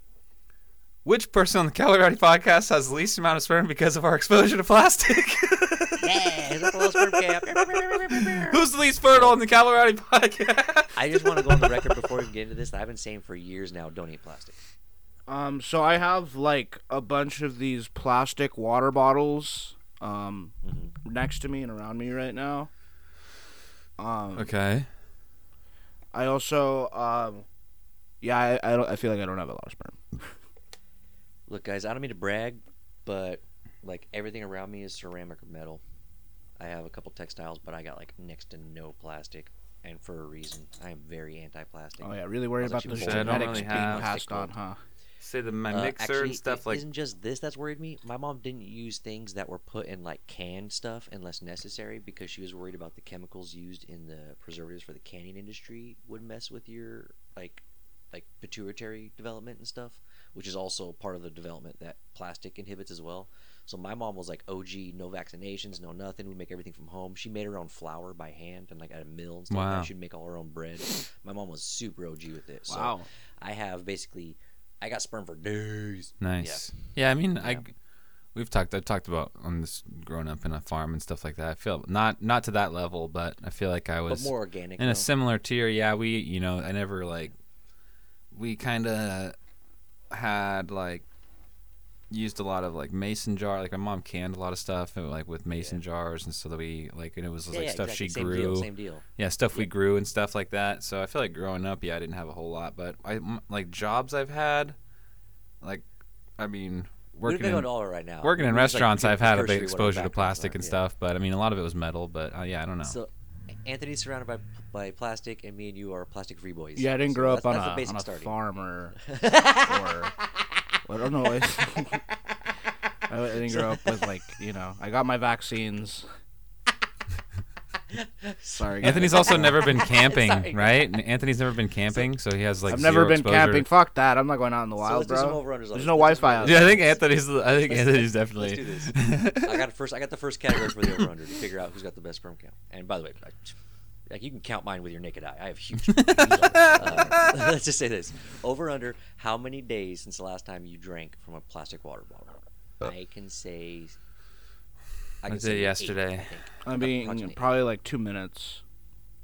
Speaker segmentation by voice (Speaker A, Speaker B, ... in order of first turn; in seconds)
Speaker A: 1.1-12.1, 24.4-24.9, 42.8-44.2, 45.2-46.8, 69.5-69.9, 76.2-77.7, 78.3-87.3, 88.3-89.4, 90.1-91.0, 92.1-104.8, 106.4-107.7, 108.2-113.0, 128.8-133.7, 136.4-139.7, 140.8-141.1, 145.9-147.5, 155.3-156.3
Speaker B: 6.0-9.4, 11.0-14.6, 20.6-20.9, 31.5-35.8, 36.6-44.5, 45.7-76.7, 84.1-85.1, 95.5-95.8, 97.5-99.7, 107.2-110.8, 112.8-113.1, 113.7-118.3, 119.0-120.5, 123.4-123.9, 127.9-131.0, 134.8-143.6, 144.1-154.0, 155.2-157.6
Speaker C: 15.3-22.7, 24.0-24.5, 26.1-27.5, 28.2-30.2, 42.0-44.8, 72.7-73.1, 116.8-119.0, 119.6-120.2, 120.8-122.0, 123.1-126.1, 128.6-129.7, 132.7-136.8, 156.7-158.6